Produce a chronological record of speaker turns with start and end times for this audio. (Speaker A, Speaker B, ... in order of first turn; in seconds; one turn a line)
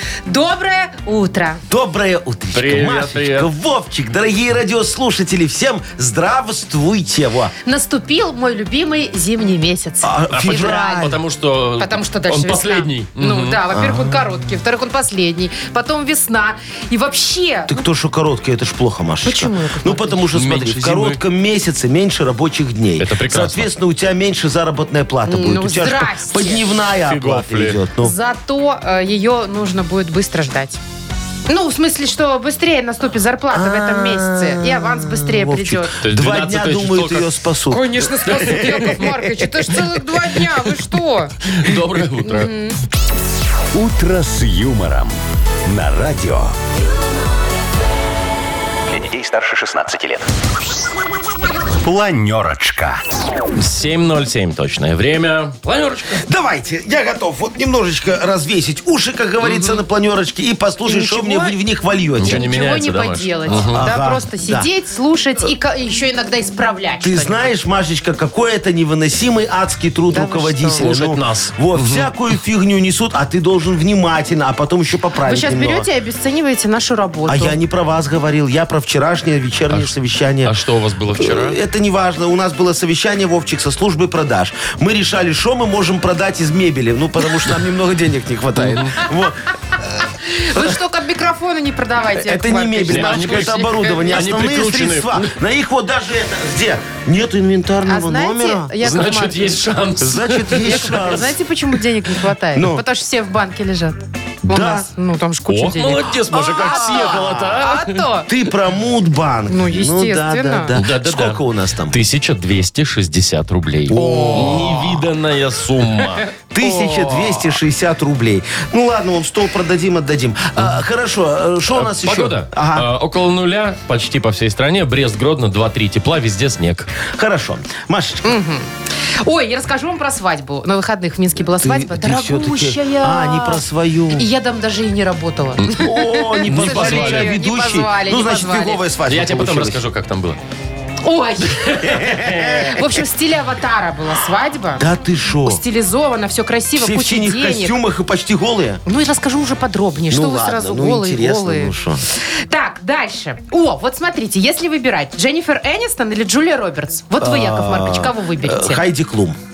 Speaker A: 0.2-1.6
Speaker B: 1.7-7.5
Speaker C: 2.5-3.5
Speaker A: 7.6-11.1
Speaker B: 10.0-11.2
Speaker C: 10.3-13.6
Speaker A: 11.8-17.7
Speaker B: 13.7-14.2
Speaker B: 17.7-28.1
Speaker A: 19.2-20.2
Speaker C: 20.3-21.2
Speaker C: 23.0-23.7
Speaker A: 25.2-26.6
Speaker C: 27.1-27.8
Speaker A: 28.0-30.8
Speaker A: 31.5-35.9
Speaker B: 33.5-39.0
Speaker C: 36.0-37.3
Speaker A: 37.7-41.3
Speaker C: 38.2-39.2
Speaker C: 41.4-42.5
Speaker A: 42.2-42.8
Speaker D: 43.7-46.5
Speaker D: 48.9-50.2
Speaker D: 51.7-53.0
Speaker C: 53.5-56.2
Speaker B: 56.2-62.5
Speaker C: 59.4-59.8
Speaker A: 60.9-61.6
Speaker C: 62.2-63.8
Speaker A: 62.2-67.5
Speaker B: 63.5-64.7
Speaker B: 67.0-75.9
Speaker A: 70.1-70.8
Speaker C: 70.8-72.1
Speaker A: 75.2-77.6
Speaker B: 77.3-80.6
Speaker C: 80.4-81.6
Speaker B: 81.2-90.0
Speaker C: 88.5-89.0
Speaker A: 90.2-94.3
Speaker B: 92.2-98.7
Speaker C: 92.9-95.3
Speaker A: 97.9-99.6
Speaker C: 98.8-101.2
Speaker B: 100.0-101.3
Speaker A: 100.6-108.3
Speaker B: 102.5-102.8
Speaker B: 104.5-104.9
Speaker C: 105.5-108.0
Speaker B: 106.5-107.5
Speaker B: 108.3-112.0
Speaker A: 109.5-110.8
Speaker C: 110.7-117.5
Speaker B: 113.9-115.1
Speaker B: 116.5-122.9
Speaker C: 121.7-126.9
Speaker B: 127.1-128.4
Speaker A: 128.2-133.6
Speaker B: 131.6-134.3
Speaker A: 134.1-138.8
Speaker B: 135.7-139.8
Speaker C: 136.4-137.3
Speaker C: 139.1-140.4
Speaker A: 141.0-144.8
Speaker C: 141.6-142.7
Speaker B: 141.9-142.7
Speaker B: 144.8-145.6
Speaker A: 145.4-147.8
Speaker B: 146.8-148.8
Speaker A: 148.8-158.8
Speaker B: 150.1-152.0
Speaker B: 157.2-159.4